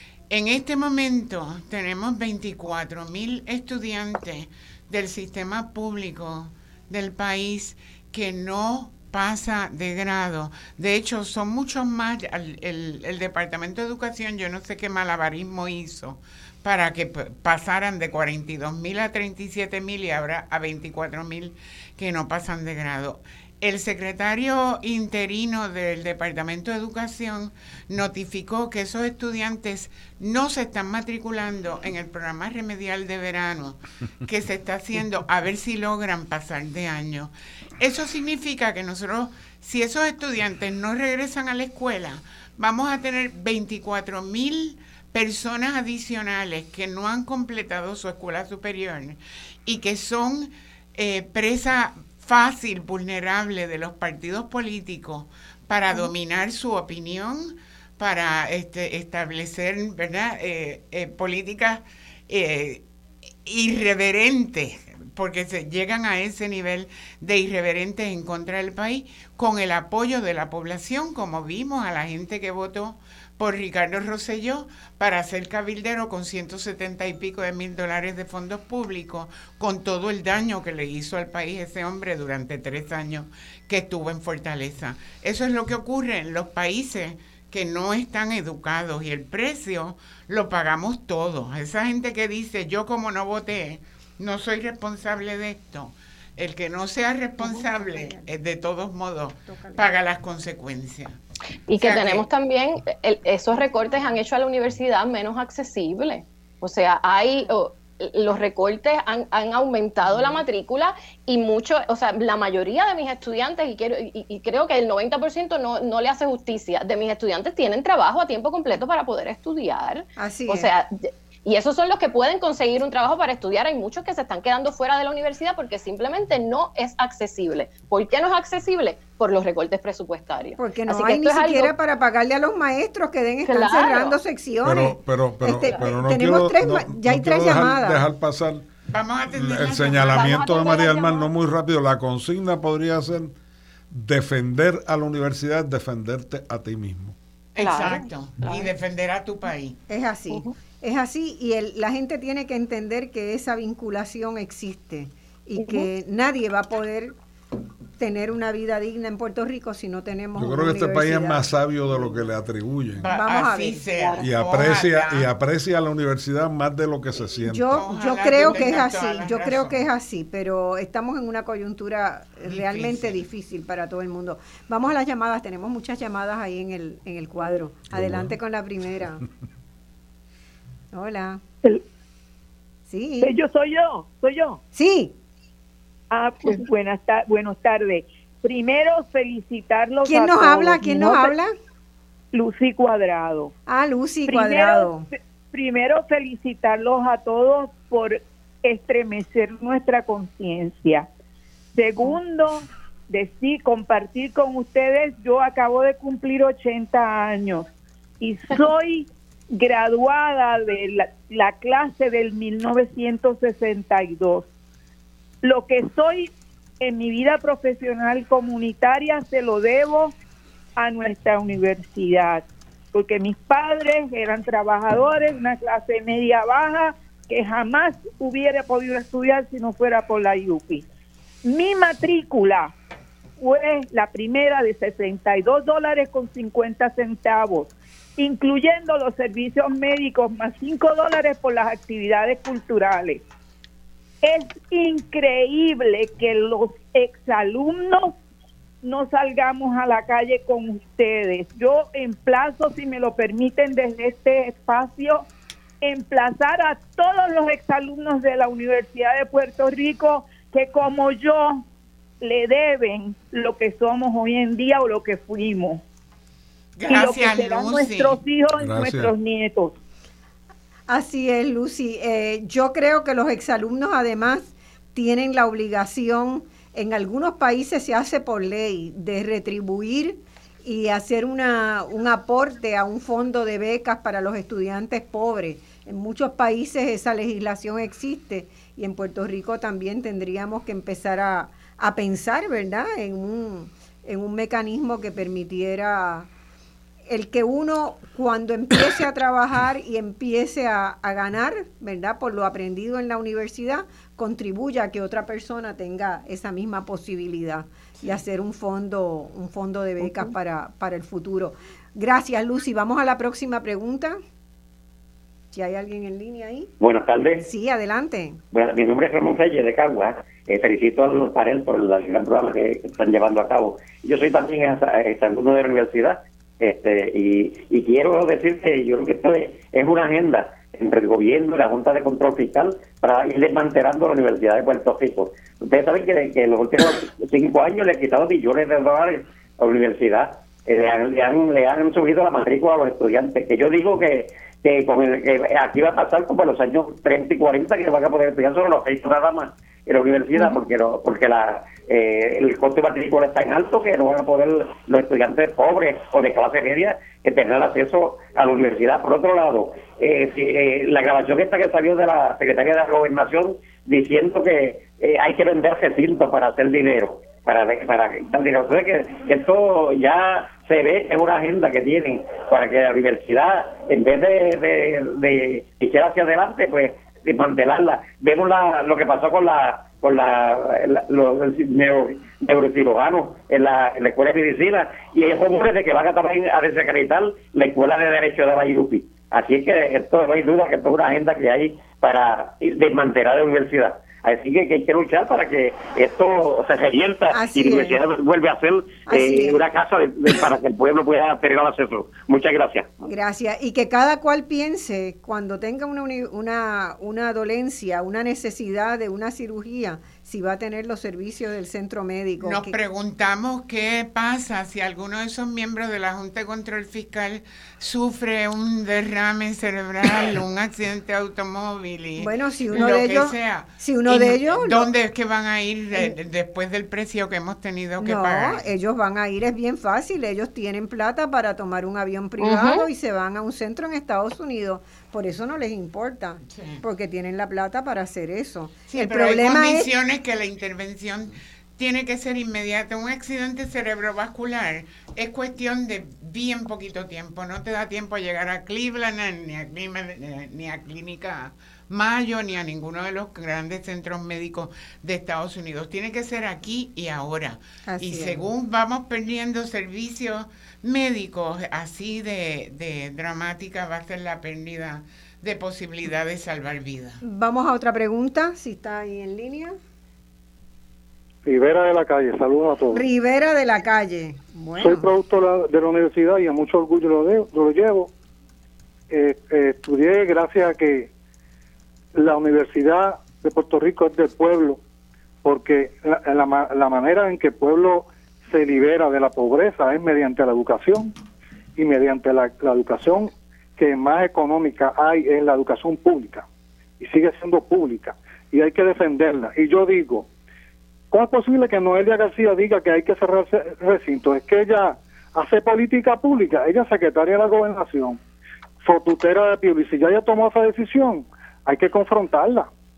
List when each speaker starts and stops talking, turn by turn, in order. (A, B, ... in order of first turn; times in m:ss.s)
0:00.3-1:02.8 A
1:03.5-1:41.2 A
1:37.4-1:38.3 B
1:39.5-1:39.9 B
1:41.7-2:11.7 C
1:41.8-1:42.2 A
2:00.2-2:00.7 B
2:10.6-2:18.0 B
2:13.5-2:14.2 C
2:14.6-2:18.7 D
2:18.9-2:20.9 A
2:19.3-2:23.3 D
2:20.2-2:21.2 C
2:23.9-2:27.2 D
2:27.6-2:29.8 A
2:27.6-2:28.7 C
2:29.9-2:37.2 B
2:35.6-2:35.9 C
2:38.0-2:42.3 B
2:40.4-2:43.1 D
2:43.0-2:45.3 A
2:43.1-2:43.8 B
2:44.0-2:44.2 C
2:44.2-2:47.8 D
2:47.4-2:59.2 B
2:47.7-2:49.8 A
2:52.5-2:53.2 A
2:57.9-2:58.3 D
3:00.9-3:01.4 B
3:02.9-3:03.3 B
3:03.2-3:04.6 E
3:04.8-3:05.2 B
3:06.1-3:11.4 E
3:10.0-3:11.5 B
3:12.3-3:13.5 E
3:13.7-3:15.1 B
3:14.3-3:14.9 E
3:15.5-3:21.1 E
3:21.8-3:27.7 E
3:28.2-3:34.5 E
3:35.4-3:36.3 E
3:36.8-3:40.1 E
3:40.8-3:50.8 E
3:51.4-3:52.7 E
3:53.4-4:03.2 E
4:04.2-4:08.1 E
4:08.8-4:15.3 E
4:15.8-4:21.6 E
4:22.2-4:25.8 E
4:26.8-4:28.2 A
4:26.9-4:29.8 E
4:28.6-4:29.1 D
4:30.9-4:56.3 B
4:57.1-5:14.2 B
5:10.0-5:10.3 C
5:15.5-5:16.7 B
5:16.8-5:17.5 F
5:17.4-5:18.4 B
5:18.5-6:42.9 F
6:37.3-6:38.0 B
6:39.1-6:39.6 B
6:43.0-6:52.8 B
6:52.4-7:08.6 A
7:02.2-7:04.9 B
7:08.0-7:19.9 B
7:12.4-7:12.8 C
7:16.5-7:16.8 A
7:18.9-7:47.2 A
7:37.9-7:38.5 B
7:47.2-7:49.8 B
7:51.5-7:53.0 G
7:52.9-7:55.1 B
7:54.8-7:58.1 G
7:59.1-8:01.1 G
8:02.2-8:04.8 G
8:05.4-8:11.1 G
8:11.8-8:16.4 G
8:17.0-8:20.3 G
8:21.1-8:28.2 G
8:28.8-8:32.7 G